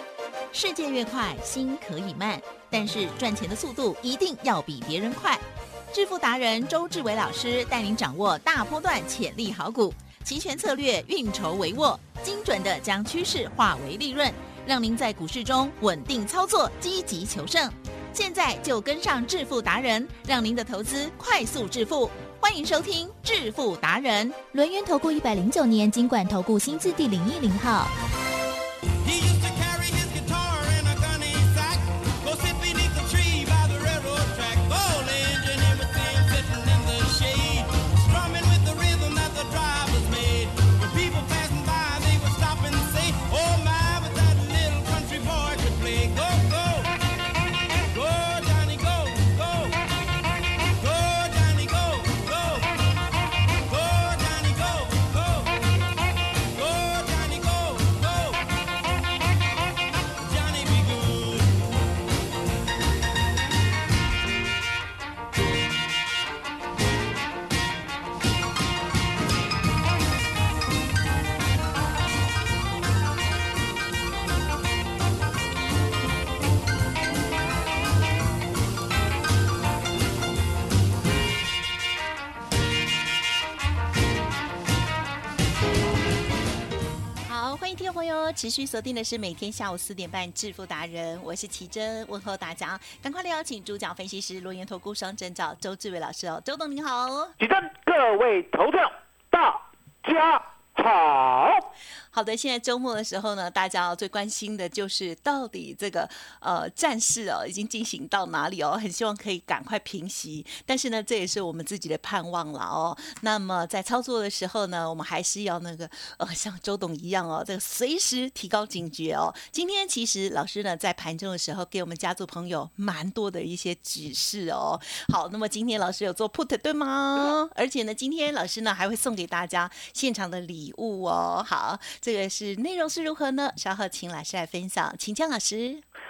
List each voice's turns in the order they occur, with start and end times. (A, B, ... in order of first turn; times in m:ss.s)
0:00.5-0:24.4 A
0:24.5-0:27.9 B
0:29.0-0:47.0 C
0:47.8-0:49.9 C
0:50.6-0:52.9 C
0:53.6-0:55.6 C
0:56.5-0:58.5 C
1:00.2-1:01.6 C
1:27.2-1:37.4 D
1:37.4-1:41.7 E
1:42.1-2:15.8 D